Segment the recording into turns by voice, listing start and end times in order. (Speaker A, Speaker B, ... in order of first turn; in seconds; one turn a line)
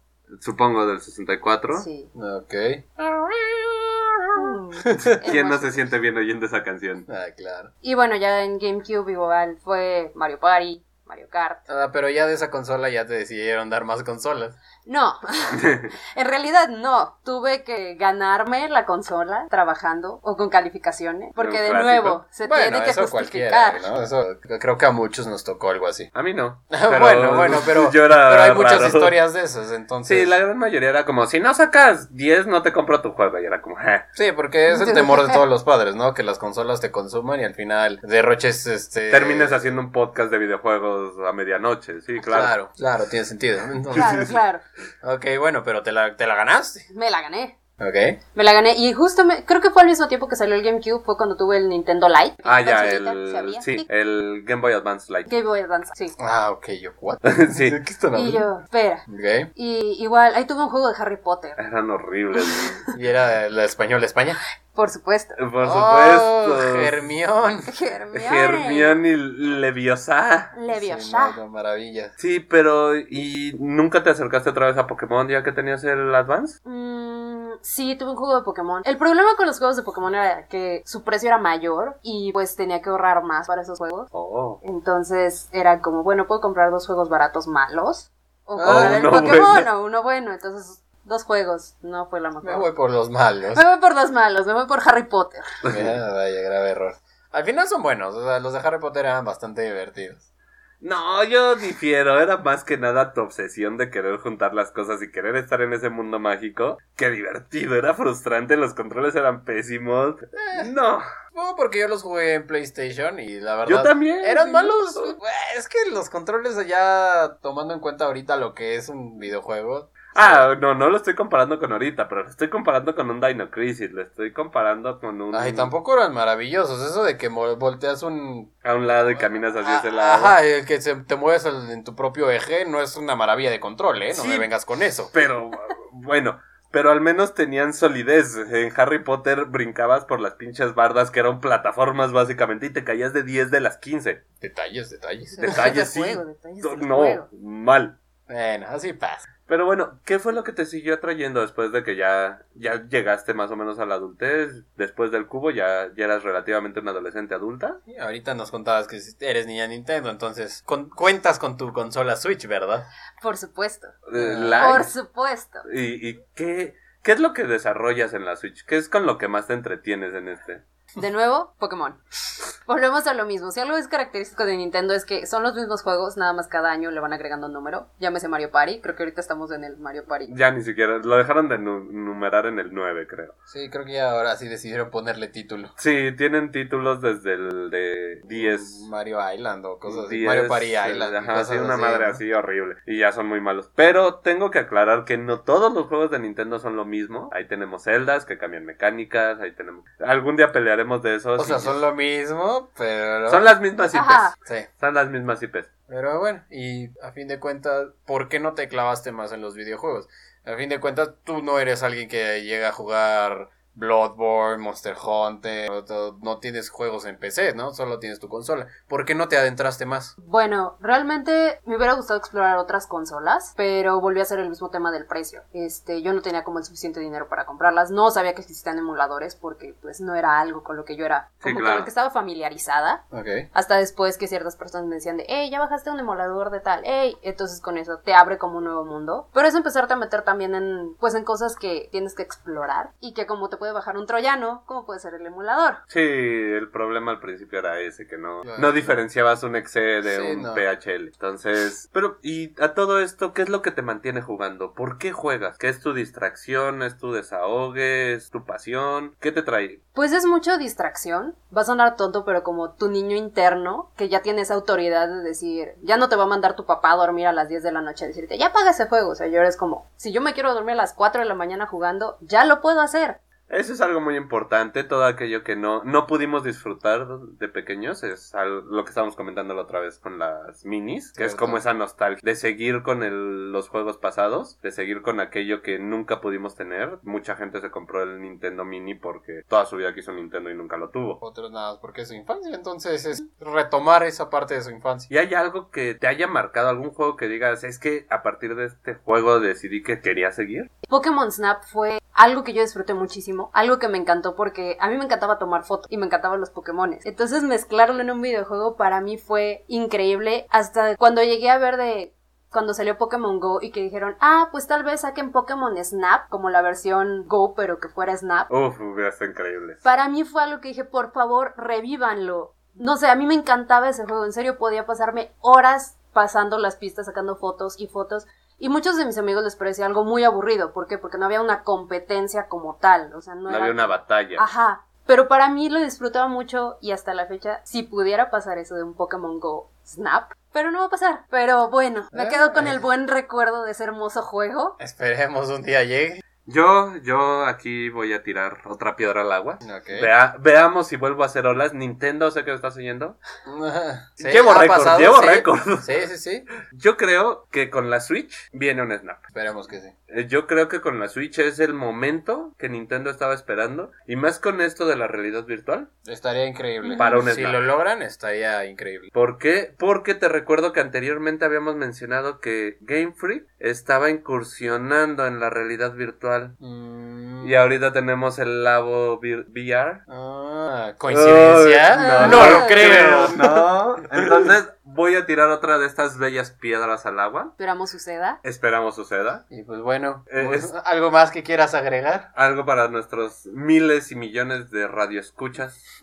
Speaker A: 0.4-1.9
Speaker B: 1.8-2.1
Speaker C: 2.1-5.2
Speaker B: 4.4-5.8
Speaker A: 5.2-7.1
Speaker C: 7.1-7.7
Speaker B: 7.8-11.6
Speaker C: 11.7-14.6
Speaker B: 14.9-23.8
Speaker A: 15.5-15.9
Speaker A: 21.4-22.2
Speaker C: 22.4-26.1
Speaker A: 26.1-29.2
Speaker C: 26.7-30.4
Speaker A: 30.1-34.1
Speaker C: 34.1-39.6
Speaker B: 34.7-35.4
Speaker A: 39.1-42.5
Speaker C: 42.2-44.4
Speaker B: 43.9-44.6
Speaker A: 44.0-44.3
Speaker C: 45.0-46.9
Speaker B: 46.9-47.5
Speaker C: 47.8-48.2
Speaker B: 48.4-53.9
Speaker A: 52.5-55.3
Speaker B: 55.3-56.2
Speaker C: 56.2-58.5
Speaker A: 57.2-57.8
Speaker B: 58.1-59.0
Speaker C: 59.1-59.5
Speaker B: 59.6-61.6
Speaker A: 61.6-62.8
Speaker B: 62.4-62.9
Speaker C: 62.9-64.4
Speaker B: 64.7-65.4
Speaker A: 65.4-67.0
Speaker C: 65.6-67.7
Speaker B: 67.7-69.0
Speaker A: 68.1-70.5
Speaker B: 70.5-71.4
Speaker C: 70.7-72.1
Speaker A: 72.2-76.5
Speaker B: 76.7-84.1
Speaker A: 84.1-84.6
Speaker B: 84.6-92.7
Speaker C: 88.6-89.4
Speaker A: 88.6-89.7
Speaker C: 92.4-93.6
Speaker B: 93.5-95.6
Speaker A: 95.7-95.9
Speaker C: 95.7-100.2
Speaker A: 100.8-111.1
Speaker C: 110.3-110.7
Speaker C: 111.3-120.5
Speaker A: 113.7-115.2
Speaker A: 120.2-125.7
Speaker C: 125.3-128.5
Speaker A: 128.6-130.4
Speaker C: 129.6-135.1
Speaker A: 134.1-134.5
Speaker A: 135.1-144.2
Speaker C: 144.4-145.6
Speaker B: 145.4-147.3
Speaker A: 145.4-147.9
Speaker C: 148.3-149.3
Speaker A: 149.5-157.8
Speaker C: 157.9-162.9
Speaker B: 163.2-164.0
Speaker A: 164.1-164.9
Speaker C: 164.2-164.8
Speaker B: 164.6-165.7
Speaker A: 165.7-170.6
Speaker B: 171.0-172.0
Speaker B: 172.7-180.3
Speaker A: 180.3-183.3
Speaker C: 183.5-185.7
Speaker A: 185.8-188.8
Speaker C: 188.3-192.2
Speaker A: 189.9-201.8
Speaker C: 201.4-203.5
Speaker A: 203.3-205.7
Speaker B: 203.9-204.3
Speaker C: 205.9-220.1
Speaker B: 220.2-245.8
Speaker A: 231.4-231.9
Speaker C: 233.1-233.5
Speaker A: 245.9-259.8
Speaker C: 248.4-248.8
Speaker C: 250.1-250.6
Speaker B: 259.9-273.2
Speaker A: 273.5-291.2
Speaker C: 281.2-281.6
Speaker C: 291.2-295.1
Speaker A: 295.1-300.7
Speaker B: 300.9-318.5
Speaker A: 318.5-319.8
Speaker B: 319.8-344.8
Speaker A: 333.5-334.5
Speaker C: 342.1-342.8
Speaker C: 344.8-346.2
Speaker A: 346.5-353.2
Speaker C: 349.6-350.1
Speaker C: 353.5-356.5
Speaker A: 354.2-356.1
Speaker A: 356.6-359.2
Speaker C: 359.3-359.9
Speaker A: 360.1-365.9
Speaker C: 366.1-369.1
Speaker B: 366.8-367.2
Speaker A: 367.0-367.6
Speaker A: 369.1-376.6
Speaker C: 376.6-377.6
Speaker A: 377.4-380.0
Speaker C: 380.1-384.5
Speaker A: 381.1-387.5
Speaker B: 381.9-383.3
Speaker B: 387.6-388.4
Speaker A: 388.4-389.4
Speaker C: 389.5-392.3
Speaker A: 390.3-390.7
Speaker A: 392.4-395.8